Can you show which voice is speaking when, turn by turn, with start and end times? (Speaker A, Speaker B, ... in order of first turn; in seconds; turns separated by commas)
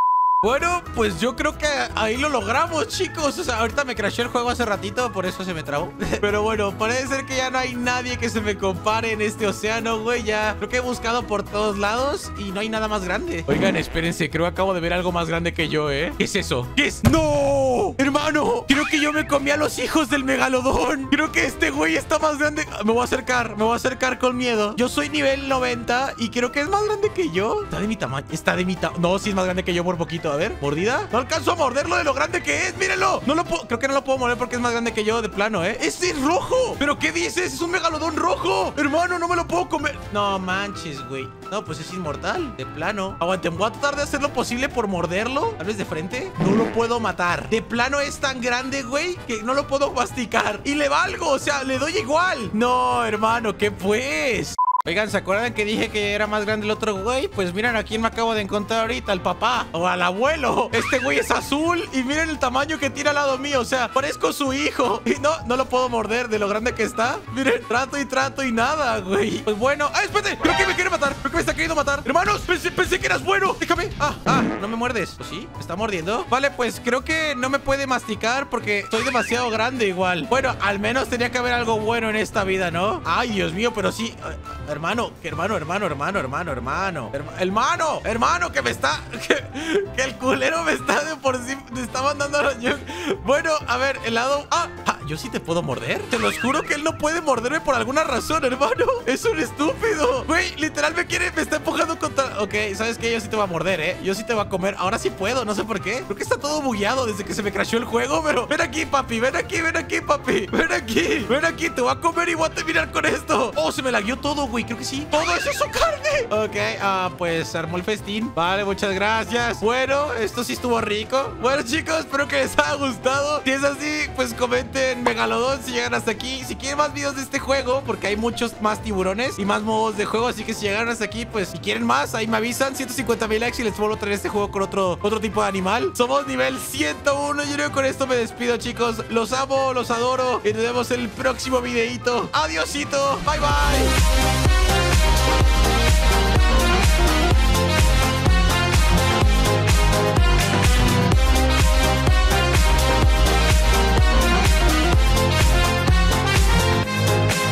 Speaker A: 0.4-143.9